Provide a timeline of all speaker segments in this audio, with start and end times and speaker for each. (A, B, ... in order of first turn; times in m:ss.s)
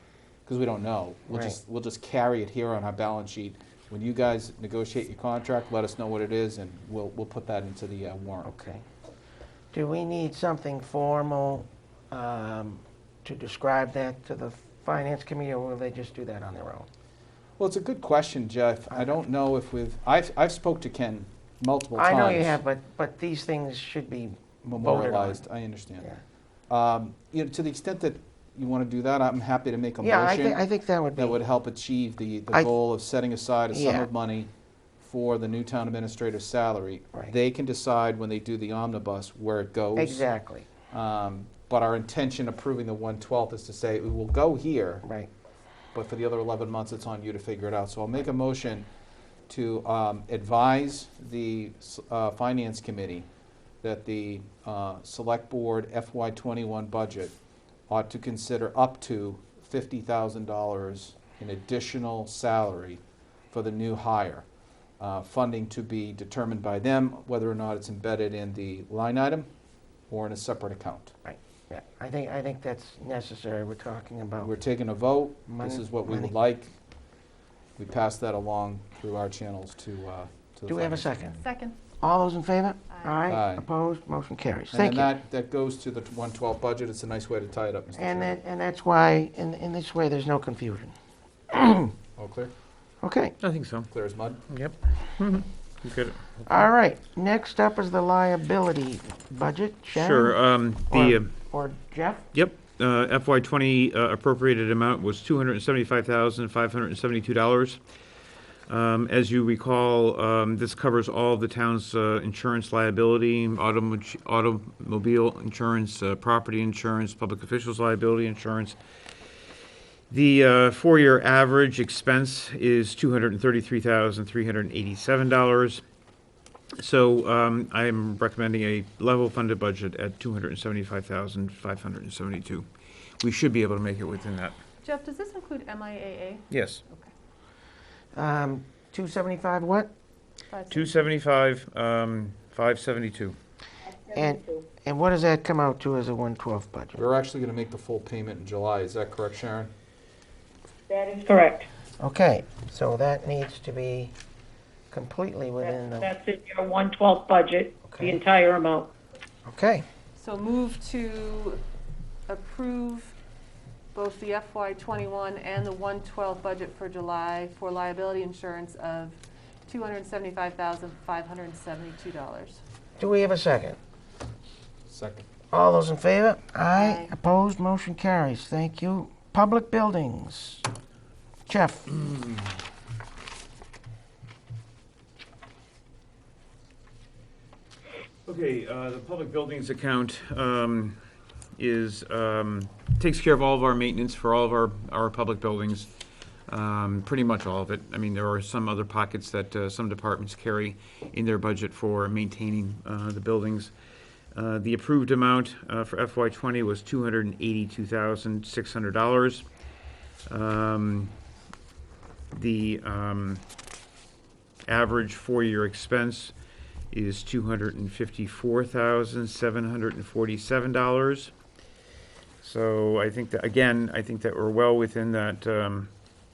0:00.4-0:08.5 A
0:01.3-0:01.6 B
0:08.4-0:08.8 B
0:09.7-0:16.9 B
0:17.6-0:22.6 A
0:21.9-0:25.4 B
0:24.6-0:26.1 A
0:26.7-0:30.6 A
0:30.0-0:31.4 B
0:31.1-0:40.3 A
0:33.7-0:34.1 B
0:40.0-0:40.7 B
0:40.9-0:45.0 A
0:45.0-0:45.3 B
0:45.9-0:48.9 A
0:49.5-0:53.3 A
0:53.8-0:57.4 A
0:57.9-1:04.4 A
1:05.0-1:09.5 A
1:10.1-1:11.1 A
1:11.2-1:14.5 B
1:14.4-1:16.7 A
1:15.5-1:16.3 B
1:17.8-1:21.3 A
1:20.7-1:21.4 B
1:21.4-1:21.8 C
1:22.0-1:25.1 B
1:22.9-1:23.2 C
1:23.3-1:23.6 A
1:24.7-1:28.4 A
1:28.0-1:30.9 B
1:31.5-1:31.9 B
1:32.2-1:32.5 A
1:33.0-1:33.3 B
1:33.4-1:33.9 D
1:33.9-1:34.4 A
1:34.5-1:36.7 D
1:36.5-1:42.3 B
1:39.9-1:41.3 D
1:42.3-1:47.8 D
1:48.7-1:58.8 D
2:00.1-2:05.8 D
2:06.8-2:12.6 D
2:13.2-2:14.6 D
2:14.8-2:17.1 C
2:16.5-2:16.8 D
2:18.1-2:19.9 B
2:20.5-2:21.0 C
2:20.7-2:23.4 D
2:24.1-2:27.0 B
2:27.0-2:29.7 A
2:30.9-2:31.7 E
2:32.0-2:34.1 B
2:34.9-2:36.1 B
2:35.8-2:38.9 E
2:37.9-2:38.2 B
2:39.5-2:39.8 B
2:40.2-2:41.6 C
2:42.3-2:43.2 C
2:43.9-2:52.6 C
2:53.0-2:53.8 B
2:54.9-2:55.3 A
2:55.5-3:00.7 B
2:56.7-2:57.1 C
3:01.5-3:01.9 B
3:01.9-3:02.6 D
3:08.2-3:11.0 D
3:11.6-3:15.9 D
3:16.5-3:23.7 D
3:24.3-3:29.4 D
3:30.3-3:31.1 D
3:32.3-3:33.4 D
3:34.7-3:36.3 D
3:36.9-3:41.3 D
3:42.4-3:45.9 D